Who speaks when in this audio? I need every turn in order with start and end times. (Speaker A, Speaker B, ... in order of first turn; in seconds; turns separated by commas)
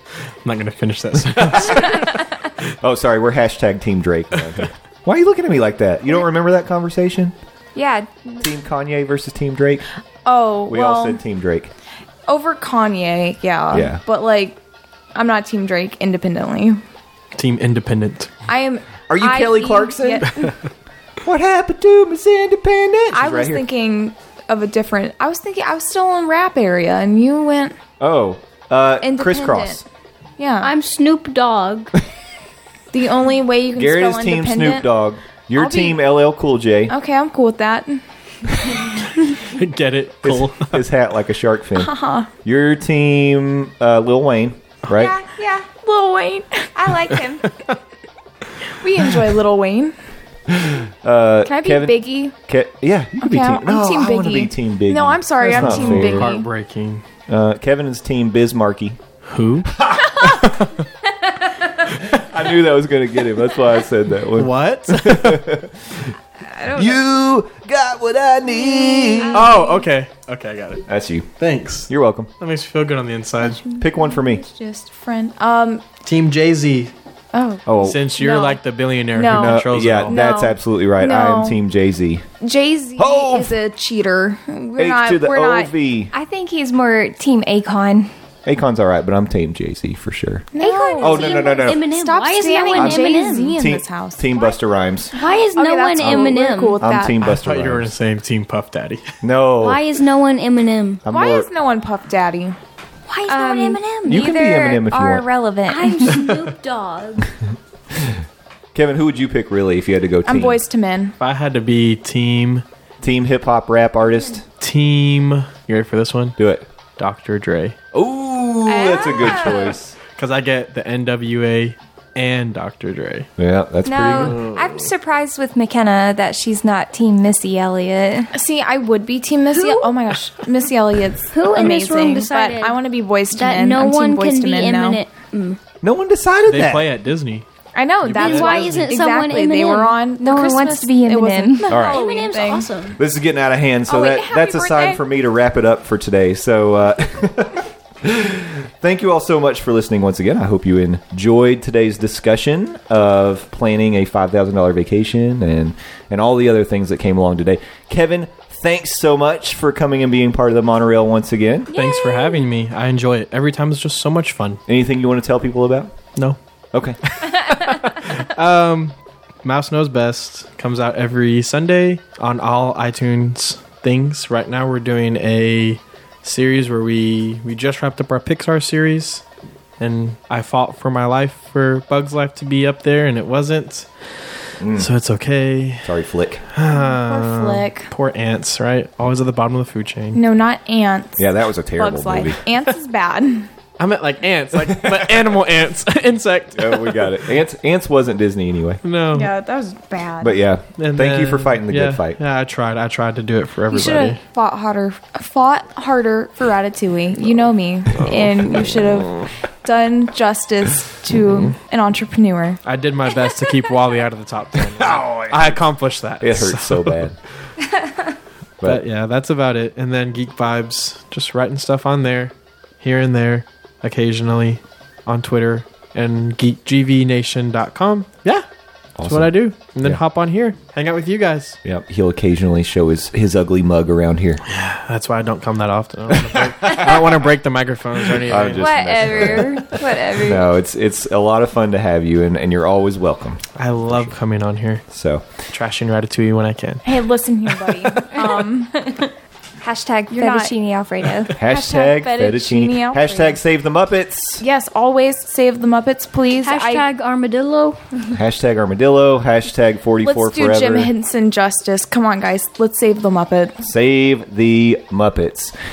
Speaker A: 0.4-2.2, Speaker B: 1.3-2.0, Speaker B: 2.8-7.3, Speaker C: 7.8-8.5, Speaker B: 8.4-9.9, Speaker D: 10.2-11.2, Speaker B: 10.7-11.7, Speaker D: 12.3-14.6, Speaker B: 13.7-14.0, Speaker D: 15.1-16.8, Speaker A: 17.4-18.3, Speaker D: 18.5-20.5, Speaker B: 19.1-20.5, Speaker B: 21.2-23.6, Speaker D: 23.1-27.8, Speaker B: 28.0-29.8, Speaker D: 29.0-29.8, Speaker D: 30.4-30.7, Speaker E: 30.6-31.9, Speaker D: 32.9-34.9, Speaker B: 33.8-36.9, Speaker D: 35.6-36.0, Speaker D: 36.9-38.0, Speaker D: 38.7-39.2, Speaker A: 39.4-40.8, Speaker B: 40.2-41.9, Speaker D: 41.8-42.3, Speaker B: 42.4-45.2, Speaker C: 44.9-45.7, Speaker D: 45.8-46.7, Speaker C: 46.8-47.5, Speaker A: 47.1-47.8, Speaker D: 48.7-50.0, Speaker B: 50.5-56.3, Speaker D: 51.5-52.3, Speaker D: 53.2-56.5, Speaker A: 55.4-57.0, Speaker B: 57.3-59.0, Speaker A: 59.2-59.8, Speaker B: 59.7-60.6, Speaker A: 60.4-60.9, Speaker B: 62.0-66.1, Speaker A: 64.3-65.5, Speaker B: 66.7-69.5, Speaker D: 68.9-69.3, Speaker C: 69.2-69.7, Speaker A: 69.3-70.8, Speaker B: 70.9-71.3, Speaker A: 71.4-73.6, Speaker B: 71.9-72.3, Speaker D: 73.4-75.8, Speaker B: 73.8-74.4, Speaker A: 76.0-76.9, Speaker D: 77.3-78.6, Speaker B: 77.7-78.0, Speaker A: 77.8-80.1, Speaker D: 79.1-81.6, Speaker B: 79.3-82.2, Speaker D: 82.4-85.7, Speaker B: 83.0-83.5, Speaker B: 84.8-86.1, Speaker C: 86.1-88.1, Speaker B: 88.5-91.8, Speaker D: 90.5-94.6, Speaker C: 90.6-91.6, Speaker E: 91.0-93.6, Speaker B: 92.8-95.1, Speaker E: 95.1-96.8, Speaker D: 95.1-97.2, Speaker B: 96.0-97.9, Speaker A: 97.2-99.0, Speaker B: 99.2-99.8, Speaker E: 99.6-101.0, Speaker B: 101.0-101.5, Speaker D: 101.1-102.6, Speaker E: 103.1-104.2, Speaker C: 103.3-106.4, Speaker B: 104.1-105.3, Speaker E: 105.6-107.3, Speaker B: 108.0-108.2, Speaker B: 108.7-110.6, Speaker D: 110.2-111.1, Speaker A: 111.2-112.6, Speaker B: 113.0-114.5, Speaker E: 114.1-114.4, Speaker A: 114.6-116.4, Speaker B: 116.4-116.7, Speaker A: 117.0-117.8, Speaker B: 117.9-120.0, Speaker C: 118.7-119.8, Speaker A: 120.2-123.3, Speaker B: 123.4-124.4, Speaker C: 123.8-128.3, Speaker A: 124.1-124.9, Speaker D: 128.3-135.0, Speaker E: 131.3-132.8, Speaker E: 133.3-135.6, Speaker B: 135.8-136.9, Speaker A: 136.5-137.5, Speaker D: 137.8-142.7, Speaker A: 138.0-138.9, Speaker E: 138.2-140.0, Speaker C: 140.2-141.8, Speaker B: 141.7-142.1, Speaker E: 141.7-143.0, Speaker B: 143.0-161.7, Speaker D: 143.9-145.0, Speaker A: 161.7-164.6, Speaker C: 161.7-162.4, Speaker B: 164.7-165.9, Speaker A: 167.1-179.2, Speaker A: 179.8-183.9, Speaker B: 184.6-184.9, Speaker A: 184.8-185.9, Speaker B: 185.8-186.4, Speaker A: 186.5-190.2, Speaker D: 186.7-187.9, Speaker D: 190.1-193.5, Speaker B: 191.2-192.4, Speaker A: 193.8-197.2, Speaker B: 194.8-195.1, Speaker B: 196.6-198.8, Speaker A: 198.8-199.3, Speaker D: 199.1-200.4, Speaker B: 200.2-202.2, Speaker A: 200.8-204.2, Speaker D: 203.7-212.6, Speaker A: 212.6-217.1, Speaker B: 214.6-215.6, Speaker B: 216.2-217.2, Speaker A: 218.6-228.4, Speaker B: 229.0-230.0, Speaker A: 229.1-231.6, Speaker B: 231.6-234.4, Speaker A: 234.5-239.4, Speaker B: 236.1-237.3, Speaker B: 238.1-244.1, Speaker C: 238.6-240.4, Speaker A: 243.6-244.8, Speaker B: 244.9-245.3, Speaker A: 245.5-247.0, Speaker D: 246.8-248.9, Speaker C: 249.6-251.4, Speaker D: 250.1-250.5, Speaker B: 251.4-254.4, Speaker D: 251.4-253.4, Speaker D: 254.4-256.9, Speaker E: 256.4-258.0, Speaker B: 258.1-260.9, Speaker D: 260.0-263.6, Speaker B: 263.6-265.6